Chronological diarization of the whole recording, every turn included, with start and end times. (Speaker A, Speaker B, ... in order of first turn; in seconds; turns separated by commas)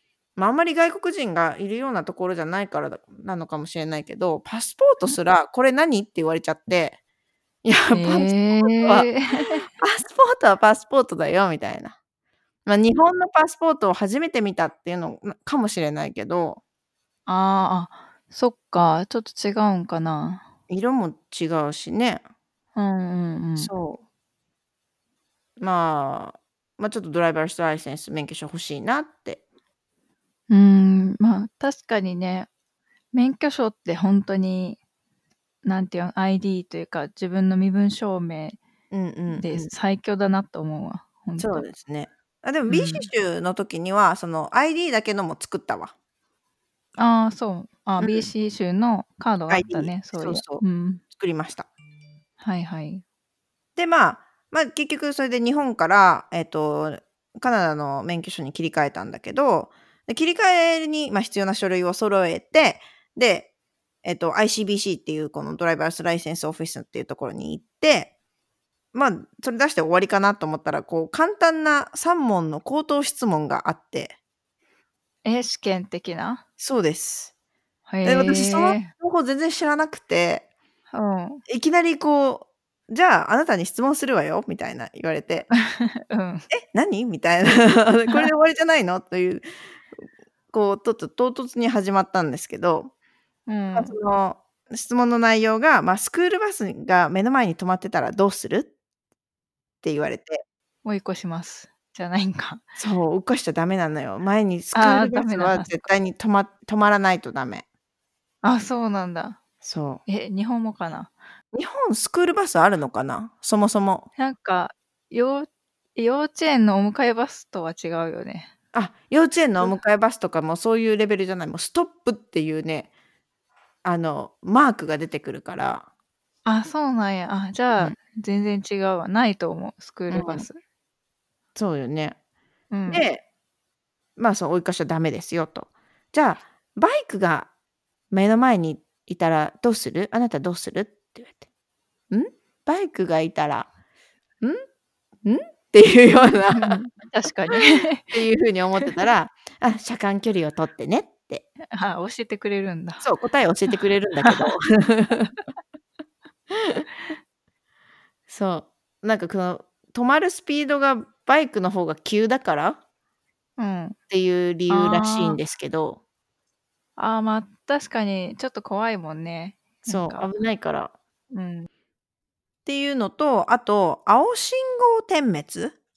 Speaker A: 0.3-7.0, Speaker A: 7.6-9.1, Speaker B: 7.9-9.7, Speaker A: 9.8-11.9, Speaker A: 12.7-16.6, Speaker B: 17.3-20.4, Speaker A: 20.7-22.2, Speaker B: 22.8-23.7, Speaker A: 23.6-24.0, Speaker A: 25.6-29.4, Speaker B: 30.5-32.5, Speaker B: 33.1-34.8, Speaker B: 35.6-38.6, Speaker A: 38.9-39.7, Speaker B: 39.3-41.7, Speaker A: 41.4-45.9, Speaker B: 42.7-43.1, Speaker B: 47.0-51.0, Speaker A: 48.0-48.2, Speaker A: 49.5-51.7, Speaker B: 52.4-53.0, Speaker A: 53.8-63.5, Speaker A: 64.0-68.1, Speaker A: 68.9-74.2, Speaker B: 75.2-76.4, Speaker A: 76.6-77.3, Speaker B: 77.9-78.9, Speaker A: 78.0-80.4, Speaker B: 80.9-81.4, Speaker A: 81.5-85.5, Speaker B: 85.7-86.5, Speaker A: 86.5-92.9, Speaker B: 93.5-94.0, Speaker A: 93.7-98.7, Speaker A: 99.8-100.4, Speaker B: 100.8-102.6, Speaker A: 102.8-107.6, Speaker B: 104.7-105.9, Speaker B: 108.4-109.4, Speaker A: 109.6-110.0, Speaker B: 110.0-111.1, Speaker A: 111.5-114.1, Speaker B: 114.2-118.5, Speaker A: 118.7-122.9, Speaker A: 123.8-125.8, Speaker B: 126.5-130.6, Speaker A: 130.1-130.4, Speaker A: 131.5-132.2, Speaker B: 132.7-133.0, Speaker A: 132.9-133.2, Speaker A: 134.2-137.5, Speaker A: 138.1-141.4, Speaker A: 142.1-143.7, Speaker A: 145.2-146.8, Speaker B: 146.5-148.2, Speaker A: 147.5-151.4, Speaker B: 151.7-153.0, Speaker A: 153.0-155.3, Speaker B: 154.2-154.5, Speaker A: 156.5-156.8, Speaker A: 158.3-162.8, Speaker B: 163.6-164.0, Speaker A: 164.1-166.0, Speaker B: 164.7-165.4, Speaker B: 167.0-170.3, Speaker A: 169.9-170.9, Speaker B: 171.3-171.7, Speaker A: 172.7-175.8